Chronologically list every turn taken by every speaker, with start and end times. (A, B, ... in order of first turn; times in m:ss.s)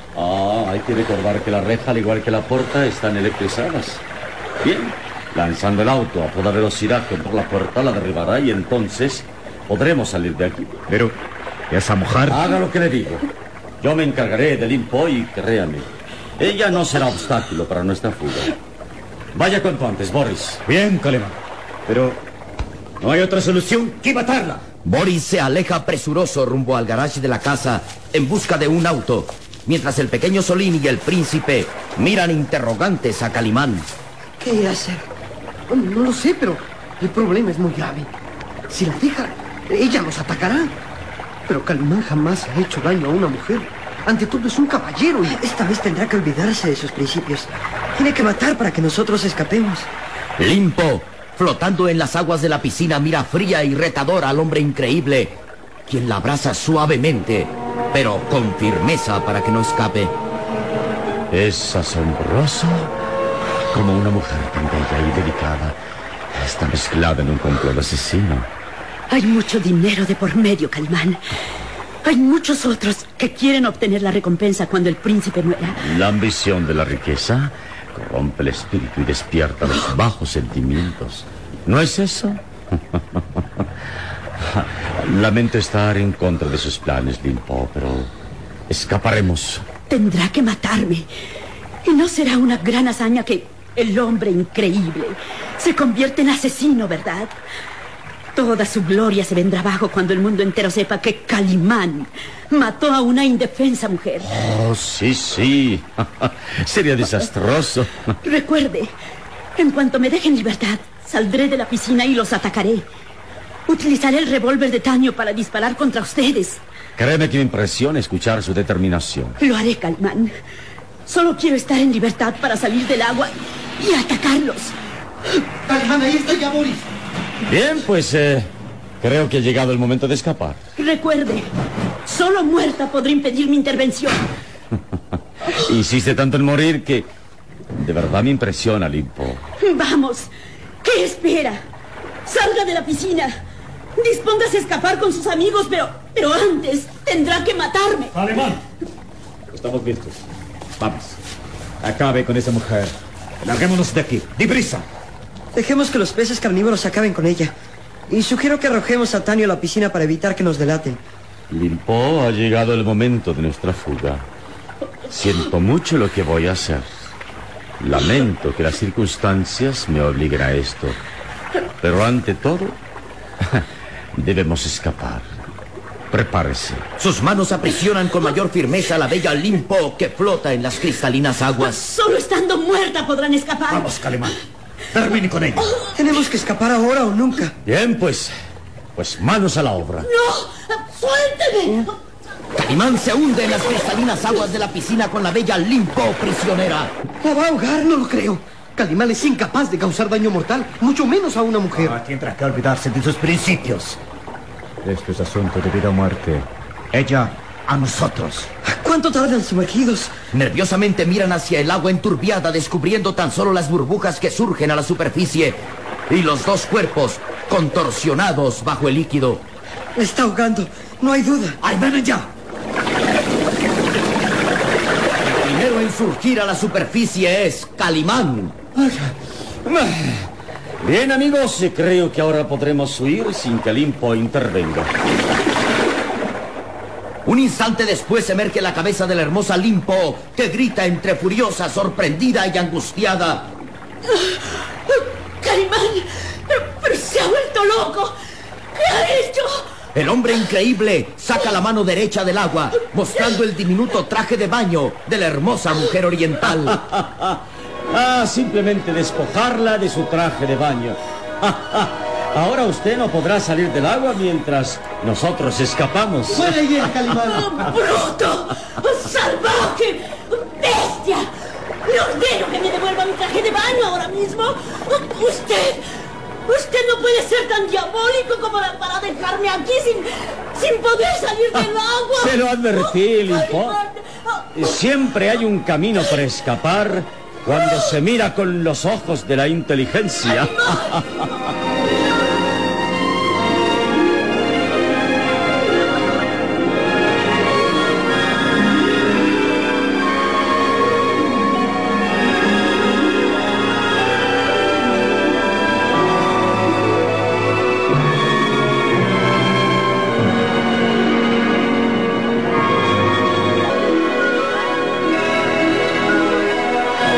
0:00.2-0:04.0 A
0:04.6-0:10.7 A
0:10.9-0:11.2 B
0:11.7-0:12.4 B
0:12.3-0:13.3 A
0:13.8-0:15.9 A
0:16.4-0:18.6 A
0:19.3-0:20.6 A
0:20.7-0:21.4 B
0:21.9-0:22.2 B
0:23.0-0:24.6 B
0:24.8-0:33.9 C
0:34.4-0:35.0 D
0:35.7-0:38.1 E
0:38.7-0:40.8 E
0:41.5-0:45.4 E
0:45.3-0:49.9 D
0:50.4-1:00.2 C
1:01.3-1:02.9 A
1:03.7-1:05.8 A
1:06.3-1:08.5 A
1:09.1-1:11.2 F
1:12.0-1:15.8 F
1:15.8-1:23.6 A
1:24.4-1:28.1 A
1:28.7-1:29.7 A
1:29.9-1:31.1 F
1:31.8-1:37.3 F
1:38.3-1:44.3 F
1:44.3-1:48.2 A
1:48.2-1:48.9 F
1:49.6-1:52.9 F
1:53.7-1:56.6 F
1:57.0-1:59.4 A
1:59.4-2:00.3 F
2:01.1-2:04.7 F
2:05.7-2:06.9 E
2:07.4-2:08.5 A
2:09.0-2:10.6 A
2:10.8-2:11.5 F
2:12.1-2:14.2 F
2:15.5-2:17.1 A
2:17.8-2:19.4 A
2:19.6-2:20.3 F
2:20.8-2:21.6 F
2:22.3-2:23.3 F
2:24.0-2:28.2 F
2:28.2-2:28.6 B
2:29.5-2:30.2 B
2:30.8-2:31.2 B
2:31.8-2:34.8 B
2:35.5-2:37.5 D
2:38.1-2:41.0 D
2:41.5-2:44.2 A
2:45.1-2:47.1 A
2:47.8-2:51.0 A
2:51.8-2:52.8 A
2:54.2-2:55.3 A
2:56.1-2:56.8 A
2:57.0-3:01.8 C
3:01.6-3:03.9 F
3:03.7-3:04.4 B
3:04.9-3:05.8 B
3:05.9-3:07.6 D
3:07.6-3:08.3 A
3:09.0-3:10.1 A
3:10.0-3:11.9 F
3:12.5-3:16.9 C
3:17.2-3:22.0 E
3:21.8-3:24.0 B
3:24.8-3:28.5 B
3:28.6-3:30.1 D
3:30.3-3:39.4 C
3:40.0-3:41.6 D
3:41.7-3:42.2 B
3:45.2-3:48.6 C
3:48.8-3:49.1 A
3:49.6-3:50.3 A
3:50.8-3:54.9 A
3:57.2-4:03.5 C
4:04.1-4:08.2 F
4:08.8-4:09.6 F
4:09.9-4:16.8 C
4:16.5-4:27.0 A
4:26.3-4:27.5 E
4:27.3-4:31.3 F
4:31.8-4:35.8 F
4:36.4-4:44.6 F
4:42.2-4:43.8 A
4:44.6-4:51.3 A
4:50.2-4:51.0 F